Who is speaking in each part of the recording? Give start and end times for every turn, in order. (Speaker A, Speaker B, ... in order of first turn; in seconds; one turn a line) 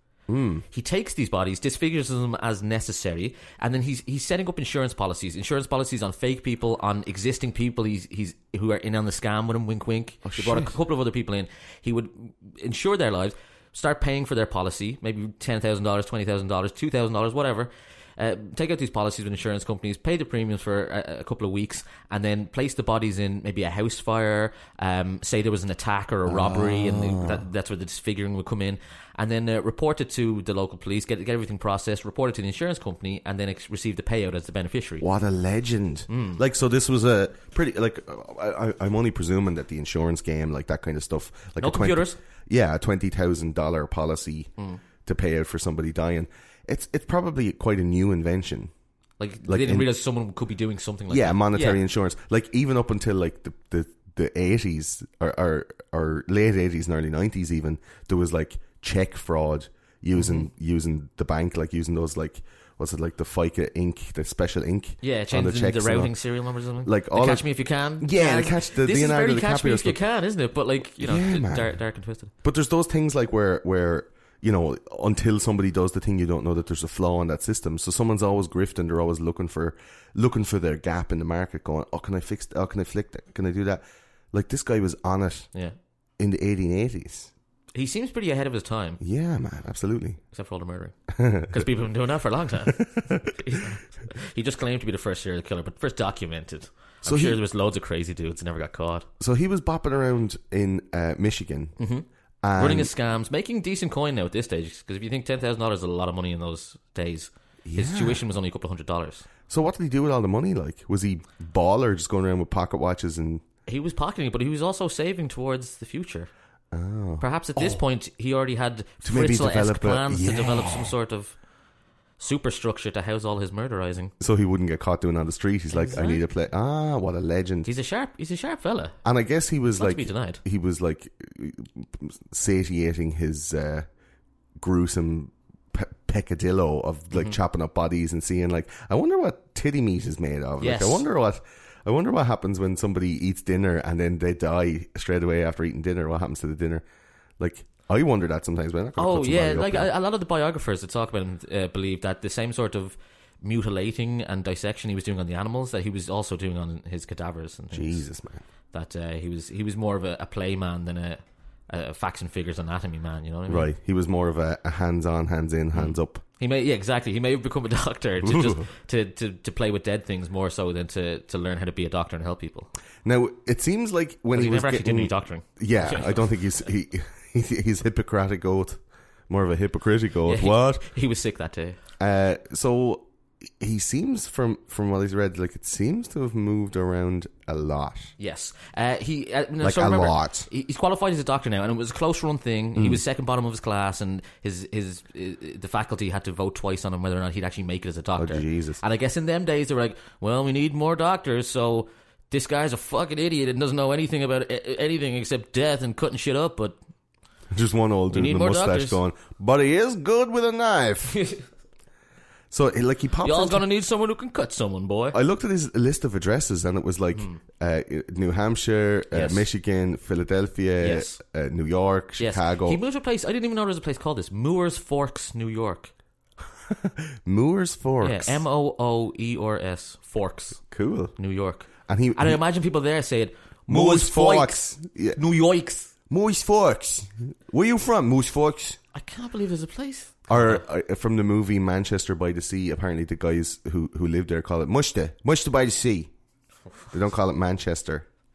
Speaker A: 0.3-0.6
Speaker B: 0.7-35.0
Speaker A: 10.2-10.7
Speaker A: 26.3-27.4
Speaker A: 35.0-44.5
Speaker B: 36.1-36.4
Speaker B: 41.6-42.2
Speaker A: 45.0-48.7
Speaker B: 49.2-51.8
Speaker A: 49.5-49.9
Speaker A: 51.1-66.1
Speaker B: 60.1-60.5
Speaker B: 65.0-72.3
Speaker A: 66.8-67.5
Speaker A: 68.0-70.0
Speaker A: 71.0-71.7
Speaker A: 72.4-85.5
Speaker A: 86.2-87.3
Speaker B: 87.7-89.0
Speaker A: 89.0-90.2
Speaker B: 90.3-99.1
Speaker A: 91.1-91.7
Speaker A: 92.9-93.3
Speaker A: 97.0-97.4
Speaker A: 99.2-101.7
Speaker B: 101.8-109.3
Speaker A: 102.4-102.9
Speaker A: 107.6-108.2
Speaker A: 109.5-113.4
Speaker B: 113.7-116.3
Speaker A: 116.7-117.8
Speaker B: 117.2-121.4
Speaker A: 119.0-120.9
Speaker B: 122.2-124.1
Speaker A: 124.2-127.7
Speaker B: 125.7-126.2
Speaker B: 127.6-129.0
Speaker A: 129.0-133.9
Speaker B: 129.8-130.4
Speaker A: 134.6-146.8
Speaker B: 140.6-141.0
Speaker A: 147.4-149.9
Speaker B: 149.0-158.0
Speaker A: 157.7-158.4
Speaker B: 158.7-163.7
Speaker A: 163.5-166.2
Speaker B: 165.7-172.7
Speaker A: 168.2-168.6
Speaker A: 173.0-180.8
Speaker B: 174.3-176.2
Speaker B: 180.2-181.8
Speaker A: 182.0-183.1
Speaker A: 183.6-188.1
Speaker B: 188.2-206.8
Speaker A: 189.6-190.5
Speaker A: 192.8-193.0
Speaker A: 198.2-198.8
Speaker A: 207.5-211.2
Speaker B: 208.1-209.0
Speaker B: 211.1-211.4
Speaker A: 212.5-213.6
Speaker B: 213.2-215.2
Speaker A: 215.1-222.8
Speaker B: 217.1-217.4
Speaker B: 219.1-219.5
Speaker B: 220.8-221.2
Speaker B: 222.2-225.9
Speaker A: 226.7-228.4
Speaker B: 228.0-230.6
Speaker A: 230.7-231.1
Speaker B: 231.2-235.9
Speaker A: 231.8-232.4
Speaker A: 233.7-235.2
Speaker A: 236.1-238.8
Speaker B: 238.9-240.6
Speaker A: 240.3-246.1
Speaker A: 246.9-248.1